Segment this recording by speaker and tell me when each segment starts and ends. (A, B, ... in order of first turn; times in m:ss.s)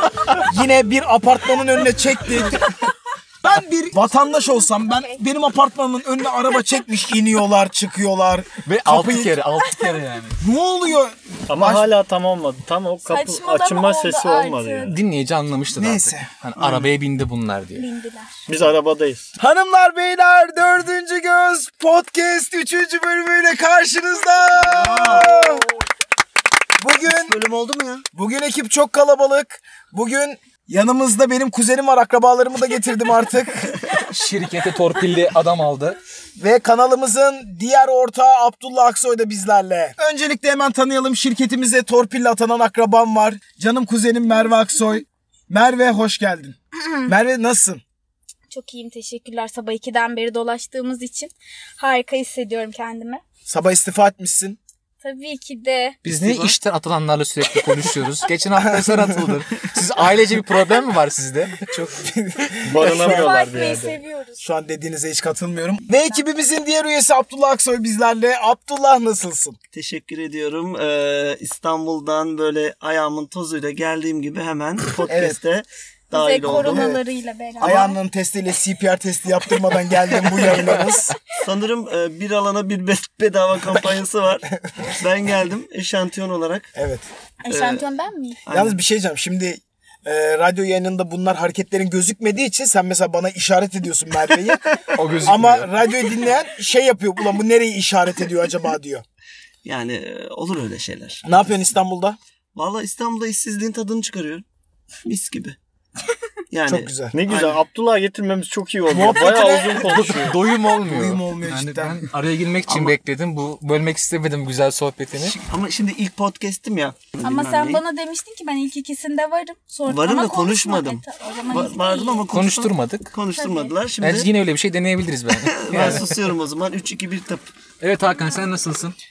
0:00.3-0:02.7 A
0:03.4-0:09.4 A
0:04.1-0:05.2 B
0:08.6-0:10.4 C
0:10.4-0:11.9 A
0:11.5-0:15.0 D
0:13.0-0:15.0 B
0:14.8-0:17.9 C
0:15.7-0:16.3 A
0:16.6-0:16.9 E
0:17.8-0:18.4 B
0:18.5-0:19.3 D
0:19.4-0:25.6 A
0:24.6-0:25.5 E
0:26.8-0:27.4 A
0:27.0-0:28.0 E
0:28.1-0:33.7 A
0:34.1-0:36.0 C
0:36.4-0:47.8 A
0:48.5-0:53.2 B
0:53.5-0:54.6 A
0:55.0-0:56.0 B
0:56.0-1:02.1 C
0:56.0-0:56.5 E
0:58.7-0:59.3 A
1:02.0-1:03.4 A
1:02.6-1:04.0 D
1:02.8-1:04.4 B
1:04.4-1:09.6 A
1:09.7-1:16.9 E
1:15.1-1:15.4 A
1:16.1-1:18.0 B
1:16.4-1:17.0 A
1:17.6-1:21.1 A
1:20.3-1:26.7 E
1:26.7-1:27.0 A
1:27.4-1:28.4 B
1:27.5-1:27.8 E
1:28.4-1:28.8 E
1:28.5-1:34.6 A
1:34.9-1:35.7 C
1:35.2-1:39.0 A
1:39.6-1:41.4 E
1:41.2-1:42.2 A
1:42.5-1:44.4 E
1:45.0-1:45.6 E
1:46.5-1:47.6 E
1:46.7-1:47.1 A
1:47.1-1:50.4 D
1:48.9-1:49.9 A
1:49.8-1:55.4 C
1:50.8-1:52.0 A
1:52.7-1:52.9 E
1:55.2-1:57.8 E
1:57.2-2:02.2 B
1:59.9-2:04.3 E
2:02.3-2:03.1 C
2:03.3-2:03.7 B
2:04.0-2:06.2 C
2:05.4-2:07.5 E
2:07.8-2:09.0 C